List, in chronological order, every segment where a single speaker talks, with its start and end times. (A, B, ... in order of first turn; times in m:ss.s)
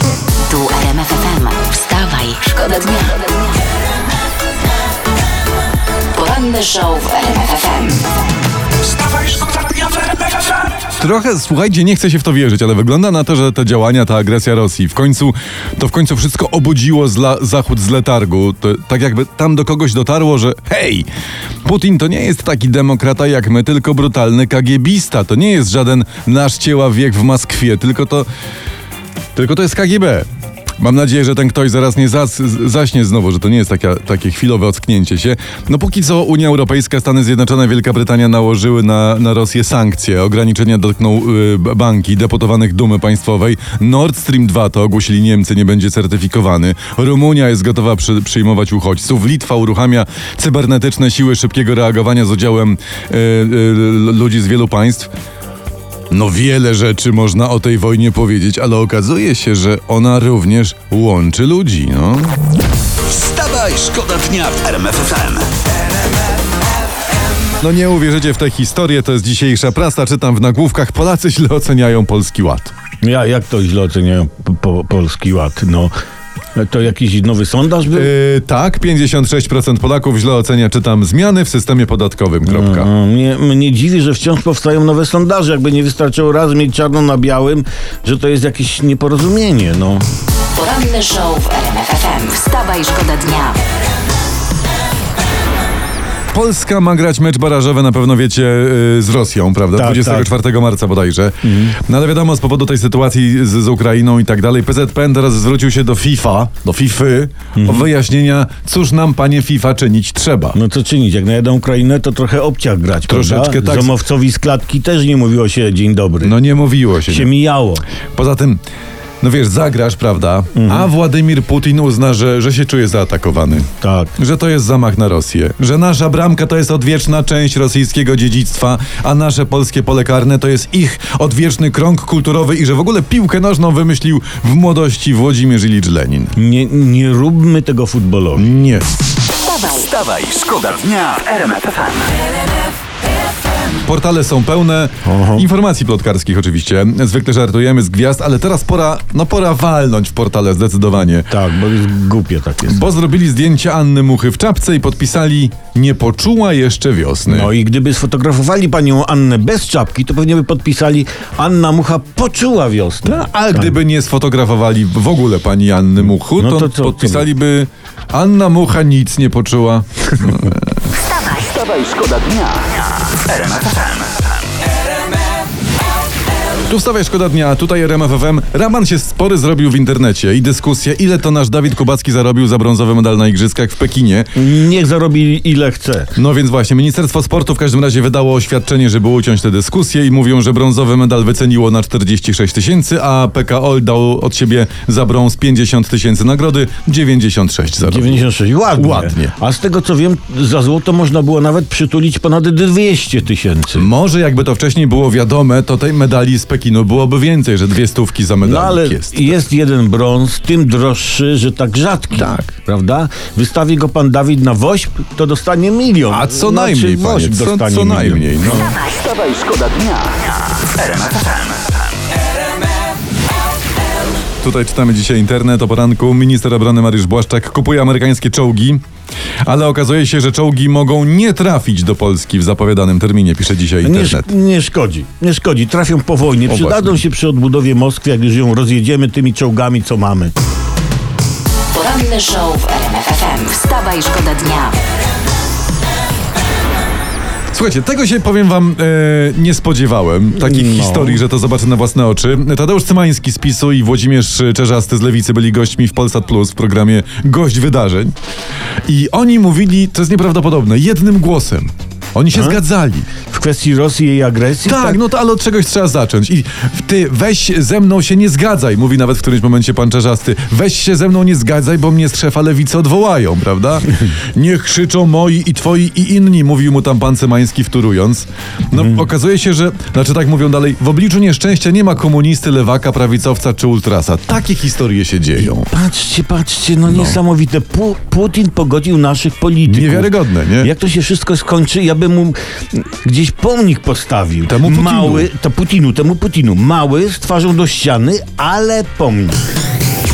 0:00.5-0:03.3 A
0:06.1-0:08.0 A
0:11.0-0:21.1 B
0:21.6-0:28.3 B
0:29.3-0:30.3 B
0:30.8-0:55.1 B
0:56.1-1:02.4 B
1:03.0-1:05.5 C
1:07.6-1:12.7 B
1:13.0-1:15.9 D
1:16.5-1:18.1 D
1:17.9-1:22.9 B
1:22.4-1:30.0 D
1:30.5-1:33.6 A
1:36.3-1:50.6 B
1:39.8-1:40.3 D
1:41.4-1:41.7 D
1:47.5-1:47.9 D
1:50.5-1:56.4 D
1:53.1-1:53.9 B
1:56.2-1:57.3 B
1:57.1-1:57.8 D
1:58.1-1:58.6 B
1:59.2-2:16.3 B
2:00.5-2:00.9 D
2:03.7-2:04.1 D
2:16.4-2:18.5 D
2:18.4-2:18.9 B
2:19.5-2:19.8 A
2:19.7-2:22.1 C
2:23.8-2:31.3 B
2:25.0-2:25.5 D
2:31.2-2:32.8 D
2:32.6-2:37.5 B
2:37.3-2:43.7 D
2:43.0-2:50.7 B
2:46.2-2:47.3 D
2:51.3-2:54.2 C
2:56.7-3:04.3 B
3:04.3-3:06.1 D
3:06.1-3:18.2 B
3:17.8-3:23.9 D
3:18.7-3:19.3 B
3:23.7-3:29.4 B
3:28.4-3:38.7 D
3:32.1-3:32.5 B
3:36.1-3:38.7 B
3:38.8-3:41.7 C
3:44.4-3:48.8 B
3:49.4-3:54.3 B
3:53.8-4:00.3 D
3:56.5-3:57.0 B
4:01.7-4:04.8 A
4:07.5-4:18.1 B
4:10.3-4:11.2 D
4:18.8-4:23.1 B
4:22.3-4:22.6 D
4:23.3-4:25.0 D
4:24.6-4:45.7 B
4:38.7-4:39.0 D
4:45.5-4:59.4 D
4:46.9-4:47.2 B
4:49.6-4:50.7 B
4:54.4-4:55.3 B